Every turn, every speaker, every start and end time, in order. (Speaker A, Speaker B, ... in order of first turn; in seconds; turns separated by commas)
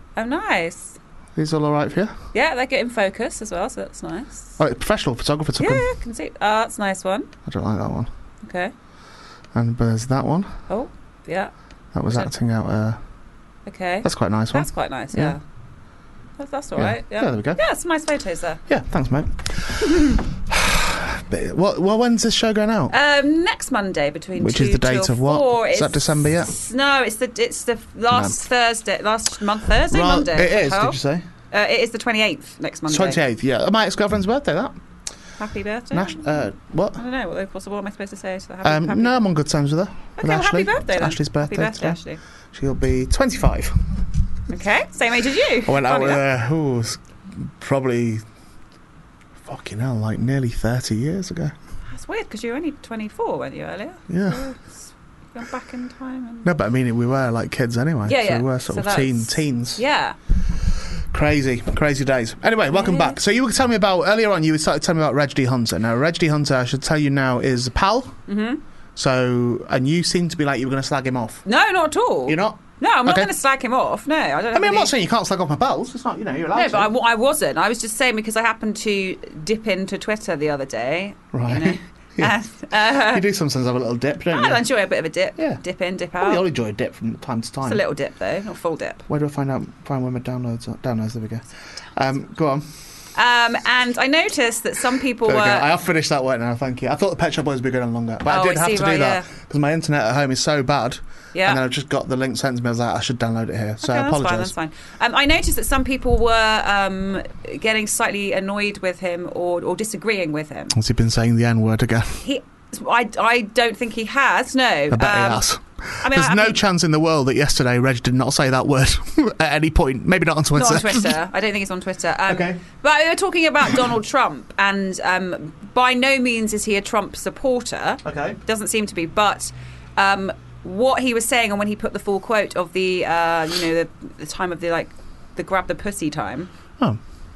Speaker A: 0.1-1.0, Speaker B: 1.4-2.1, Speaker A: 2.3-4.5, Speaker B: 4.6-5.9, Speaker A: 5.6-7.3, Speaker B: 7.5-8.1, Speaker A: 8.4-8.7, Speaker B: 9.5-10.5, Speaker A: 10.7-11.5, Speaker B: 11.9-13.0, Speaker A: 13.7-15.4, Speaker B: 14.0-15.4, Speaker A: 16.4-18.6, Speaker B: 16.8-17.6, Speaker B: 18.7-22.9, Speaker A: 22.9-31.0, Speaker B: 24.4-26.5, Speaker B: 28.1-28.4, Speaker B: 29.9-31.2, Speaker A: 31.5-33.2, Speaker B: 32.9-34.7, Speaker A: 35.4-36.2, Speaker B: 35.9-37.0, Speaker A: 37.0-39.2, Speaker B: 38.6-42.0, Speaker A: 40.2-42.2, Speaker B: 42.5-43.8, Speaker A: 44.5-46.2, Speaker B: 45.6-48.2, Speaker B: 49.4-51.5, Speaker A: 51.9-54.6, Speaker B: 54.1-54.5, Speaker A: 55.3-56.5, Speaker B: 56.4-59.8, Speaker A: 58.1-60.2, Speaker B: 61.1-68.2, Speaker A: 62.7-63.2, Speaker A: 68.3-68.6, Speaker B: 69.0-71.5, Speaker A: 71.5-74.9, Speaker B: 72.3-73.3, Speaker B: 74.5-76.9, Speaker A: 76.5-83.2, Speaker B: 81.3-84.6, Speaker A: 84.3-86.4, Speaker B: 86.2-87.8, Speaker A: 87.6-89.0, Speaker B: 89.1-92.7, Speaker A: 93.2-95.7, Speaker B: 95.2-104.5, Speaker A: 98.3-99.2, Speaker A: 101.3-101.6, Speaker A: 103.8-110.8, Speaker B: 110.7-112.2, Speaker A: 112.2-115.4, Speaker B: 114.9-121.2, Speaker A: 116.0-116.6, Speaker A: 120.5-136.5, Speaker B: 122.3-122.6, Speaker B: 128.0-128.4